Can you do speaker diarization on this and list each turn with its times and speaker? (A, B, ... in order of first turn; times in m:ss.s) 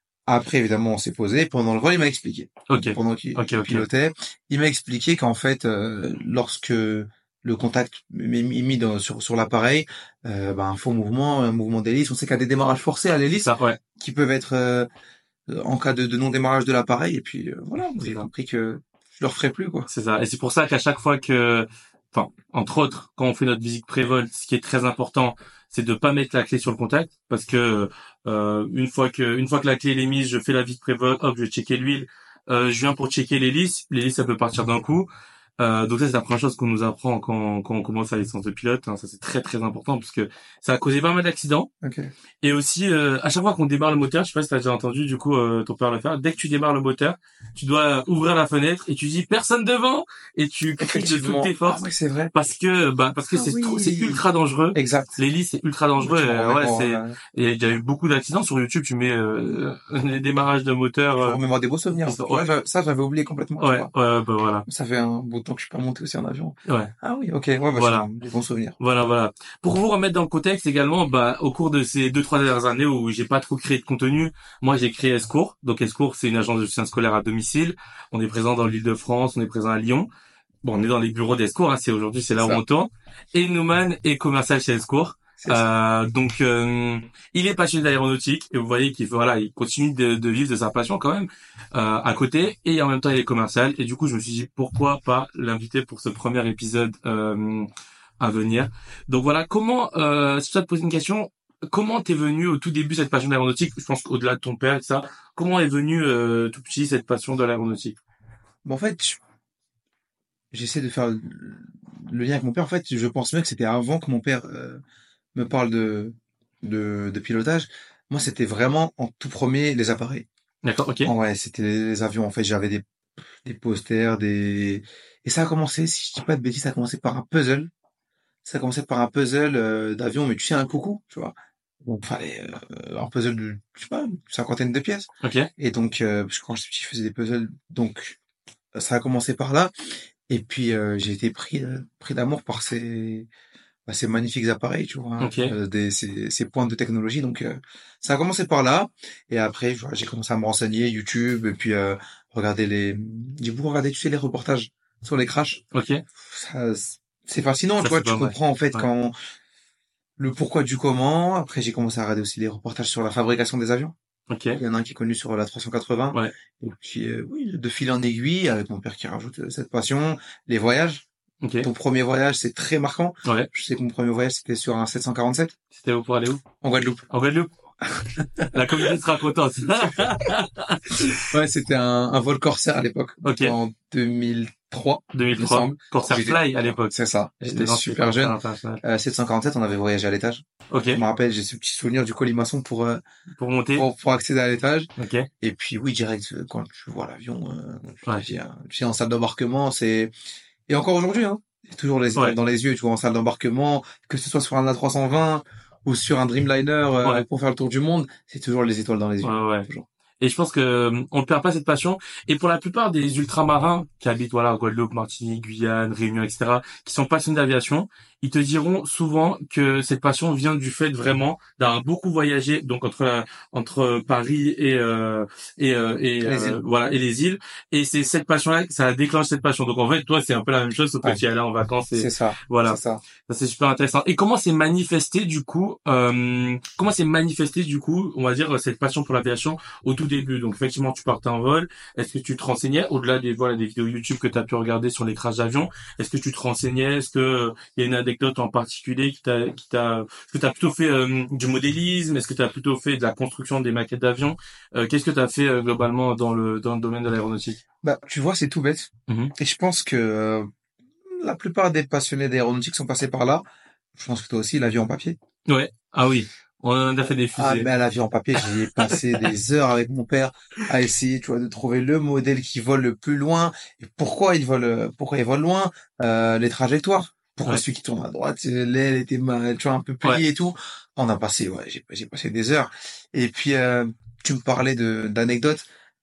0:00.3-0:14.9 A
0:02.7-0:03.8 B
0:13.4-0:13.8 B
0:15.5-0:19.9 A
0:19.9-0:35.1 B
0:35.6-0:41.7 B
0:41.8-0:42.1 A
0:42.4-1:01.4 B
0:50.8-0:52.3 A
0:53.3-0:54.2 A
0:54.7-0:55.2 A
0:56.0-0:57.2 A
1:01.2-1:03.9 A
1:02.0-1:02.5 B
1:03.6-1:04.6 B
1:04.6-1:08.8 A
1:06.6-1:06.9 B
1:07.7-1:08.0 B
1:08.8-1:20.1 B
1:20.6-1:37.7 B
1:38.2-1:48.0 B
1:48.6-1:49.2 A
1:50.5-1:54.8 A
1:55.3-2:00.2 A
2:00.6-2:01.1 B
2:01.0-2:02.8 A
2:03.4-2:07.7 A
2:08.4-2:18.2 A
2:15.2-2:15.5 B
2:18.7-2:19.7 A
2:20.3-2:23.3 A
2:23.9-2:35.6 A
2:25.2-2:25.6 B
2:35.7-2:36.0 B
2:36.2-2:39.1 A
2:37.8-2:38.9 B
2:40.2-2:43.9 A
2:44.3-2:44.6 B
2:44.5-2:51.0 A
2:51.4-2:51.7 B
2:51.6-2:55.6 A
2:55.7-2:56.4 B
2:56.6-2:57.1 A
2:57.1-2:57.5 B
2:57.9-2:59.0 A
2:58.5-3:01.2 B
3:01.1-3:13.0 A
3:03.2-3:03.6 B
3:05.1-3:08.8 B
3:10.7-3:11.0 B
3:13.4-3:13.9 B
3:13.7-3:14.9 A
3:15.0-3:15.3 B
3:15.4-3:20.1 A
3:20.7-3:29.8 A
3:29.2-3:29.7 B
3:30.2-4:17.6 B
3:46.2-3:46.6 A
3:51.9-3:53.0 A
4:17.8-4:20.5 A
4:19.1-4:19.3 B
4:21.1-4:23.4 A
4:23.9-4:25.2 A
4:25.5-4:27.7 B
4:27.4-4:45.6 A
4:28.4-4:29.3 B